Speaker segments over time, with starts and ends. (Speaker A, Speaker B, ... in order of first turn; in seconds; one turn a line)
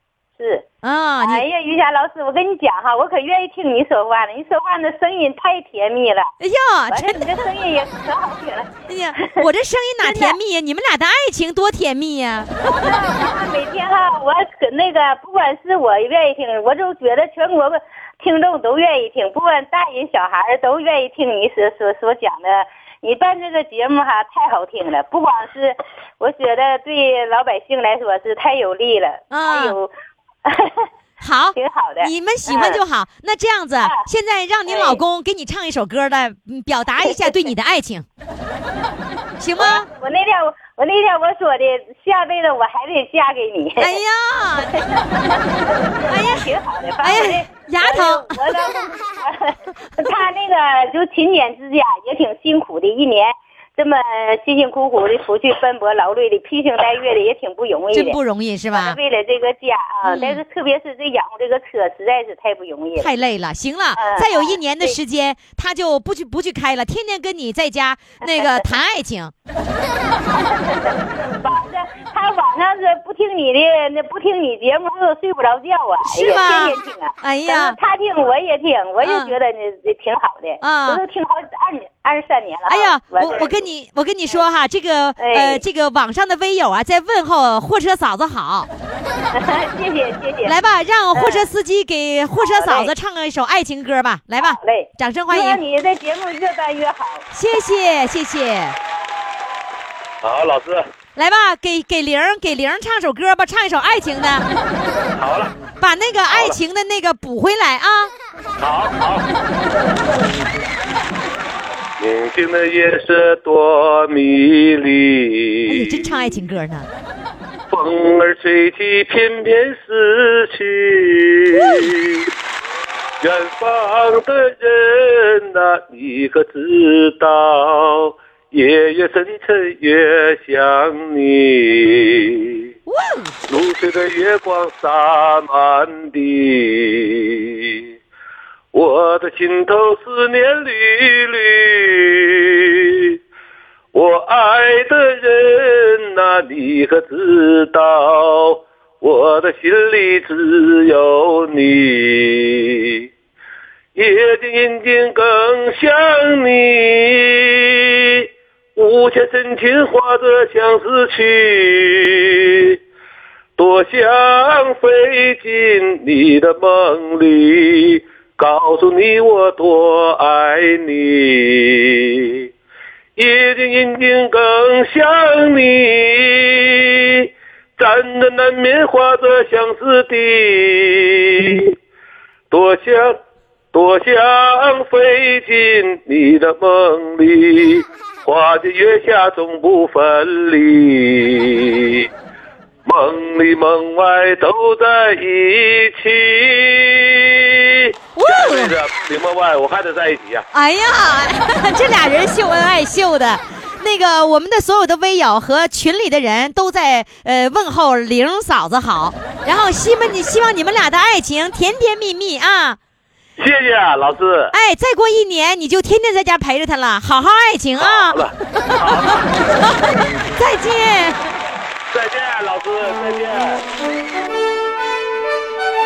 Speaker A: 0.4-0.7
Speaker B: 0.8-1.4
Speaker A: 1.2-6.3
Speaker B: 6.4-7.3
Speaker A: 6.9-8.7
Speaker B: 8.9-12.9
Speaker A: 9.2-9.5
Speaker A: 10.0-10.4
Speaker A: 12.7-29.9
Speaker B: 29.3-29.8
Speaker A: 30.4-30.9
Speaker B: 31.2-38.0
Speaker A: 31.6-32.8
Speaker A: 34.7-35.0
Speaker A: 37.1-37.4
Speaker B: 39.4-39.9
Speaker A: 39.6-44.0
Speaker B: 43.8-44.8
Speaker A: 44.7-58.2
Speaker B: 46.1-46.5
Speaker B: 47.0-48.6
Speaker B: 57.9-59.0
Speaker A: 58.7-63.1
Speaker B: 60.0-60.4
Speaker B: 63.0-69.3
Speaker A: 64.0-65.0
Speaker A: 68.2-68.7
Speaker A: 70.3-83.5
Speaker B: 76.0-77.8
Speaker B: 79.0-79.3
Speaker B: 80.6-81.0
Speaker B: 82.7-88.7
Speaker A: 85.2-85.6
Speaker A: 89.3-90.6
Speaker B: 90.4-95.6
Speaker A: 91.1-91.5
Speaker A: 92.4-92.9
Speaker A: 94.4-97.3
Speaker B: 97.3-98.8
Speaker C: 100.2-100.9
Speaker B: 101.2-104.5
Speaker C: 105.2-105.5
Speaker B: 105.8-108.1
Speaker C: 106.3-106.6
Speaker C: 108.6-109.3
Speaker C: 112.0-116.1
Speaker B: 115.7-116.9
Speaker C: 117.7-122.3
Speaker B: 121.6-121.9
Speaker C: 123.2-132.7
Speaker B: 132.9-133.4
Speaker C: 133.5-137.9
Speaker C: 138.7-143.2
Speaker C: 143.9-153.1
Speaker C: 154.0-162.8
Speaker C: 163.6-172.5
Speaker C: 173.2-181.8
Speaker C: 182.5-183.2
Speaker C: 183.7-192.1
Speaker C: 192.9-200.5
Speaker B: 198.2-198.8
Speaker B: 200.5-212.8
Speaker C: 213.4-214.5
Speaker B: 214.5-221.3
Speaker C: 217.8-219.4
Speaker C: 221.9-223.6